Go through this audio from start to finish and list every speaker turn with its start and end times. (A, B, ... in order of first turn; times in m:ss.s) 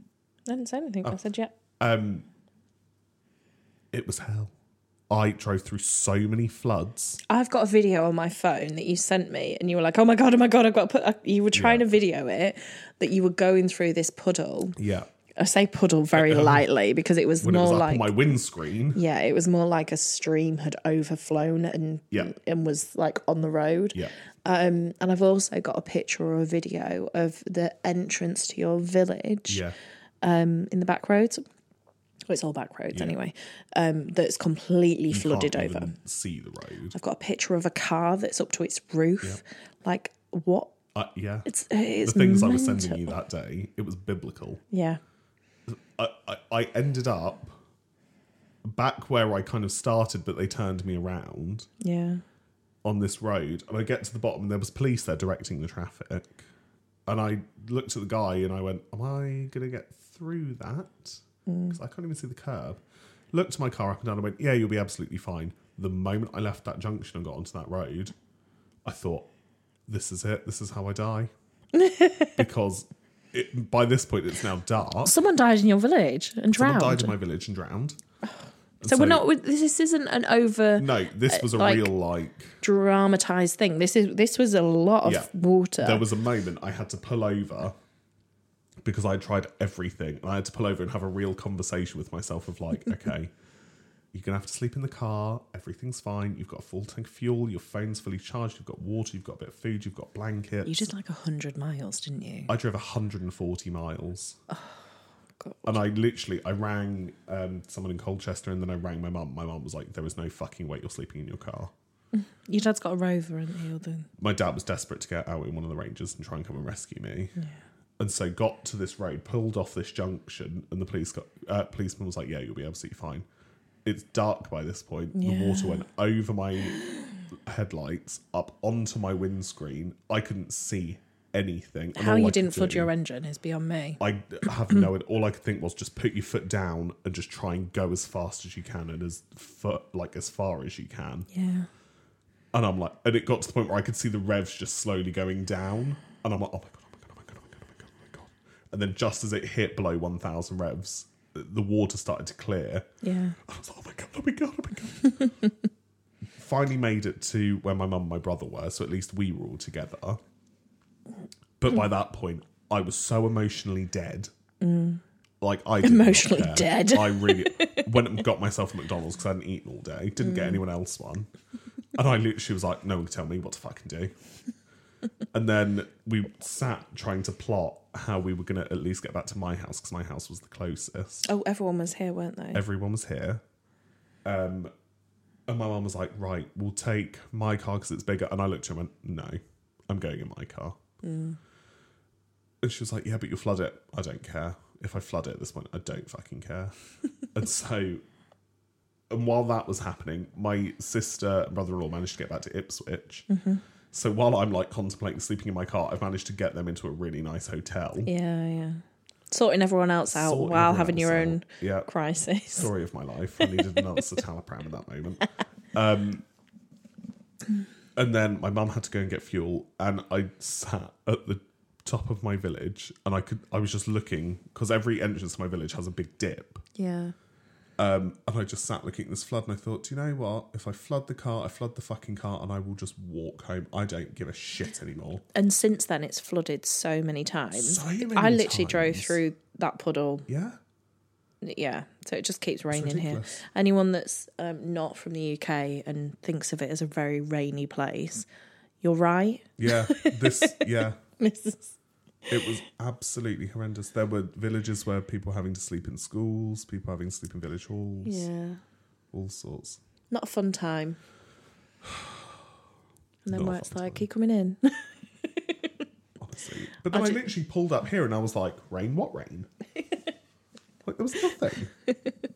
0:00.5-0:01.5 A
0:01.8-0:02.3 B
0:03.9-0:04.5 B
0:05.1-0:07.2 B
0:07.3-0:14.8 A
0:11.5-0:11.9 B
0:14.8-0:15.1 B
0:15.4-0:18.1 A
0:16.2-0:16.6 B
0:17.4-0:19.0 B
0:18.9-0:29.6 A
0:29.5-0:29.8 B
0:30.2-0:31.4 A
0:32.3-0:36.0 A
0:35.1-0:37.0 B
0:36.9-0:40.7 A
0:40.9-0:41.5 B
0:41.5-0:43.1 A
0:42.0-0:44.6 B
0:44.7-0:45.0 A
0:45.7-0:47.6 B
0:48.6-0:51.7 B
0:51.8-0:52.2 A
0:52.8-0:56.5 B
0:57.1-1:02.8 B
1:01.5-1:01.8 A
1:03.3-1:08.1 B
1:08.8-1:09.3 B
1:09.9-1:11.3 B
1:11.7-1:12.4 A
1:12.4-1:15.2 B
1:15.0-1:17.1 A
1:16.5-1:18.0 B
1:18.8-1:19.3 B
1:18.8-1:21.9 A
1:20.8-1:22.6 B
1:22.6-1:26.0 A
1:25.0-1:27.7 B
1:28.8-1:33.3 B
1:34.1-1:40.9 B
1:40.6-1:42.5 A
1:42.5-1:44.4 B
1:44.5-1:44.8 A
1:45.4-1:45.8 A
1:45.7-1:51.7 B
1:52.1-1:54.1 A
1:54.2-1:57.4 B
1:58.0-2:03.2 B
2:03.8-2:06.8 B
2:05.2-2:05.9 A
2:07.5-2:12.9 B
2:12.0-2:14.0 A
2:14.0-2:21.3 B
2:21.3-2:21.7 A
2:22.5-2:35.3 B
2:33.0-2:33.4 A
2:36.4-2:40.2 B
2:41.6-2:44.3 B
2:44.6-2:45.0 A
2:45.4-2:51.3 B
2:45.8-2:47.9 A
2:50.2-2:50.6 A
2:52.0-2:54.1 B
2:55.3-3:01.3 B
3:01.2-3:02.6 A
3:02.5-3:03.4 B
3:04.2-3:04.7 B
3:05.5-3:10.8 B
3:11.0-3:11.4 A
3:12.6-3:16.8 B
3:17.3-3:18.0 B
3:19.1-3:23.3 B
3:23.3-3:23.6 A
3:23.9-3:28.1 B
3:28.0-3:32.7 A
3:30.1-3:31.9 B
3:32.5-3:36.2 B
3:33.4-3:33.8 A
3:38.0-3:46.6 B
3:46.8-3:47.2 A
3:47.8-3:55.2 B
3:55.3-4:00.3 A
3:57.5-3:59.2 B
4:00.3-4:00.6 B
4:01.4-4:08.3 A
4:02.7-4:03.4 B
4:08.8-4:10.6 A
4:09.6-4:11.0 B
4:11.2-4:11.8 A
4:12.3-4:18.3 B
4:18.0-4:18.6 A
4:19.1-4:19.8 B
4:20.1-4:21.0 A
4:21.8-4:22.2 B
4:23.3-4:25.7 A
4:23.3-4:24.0 B
4:26.2-4:29.5 B
4:26.9-4:27.2 A
4:30.8-4:31.7 B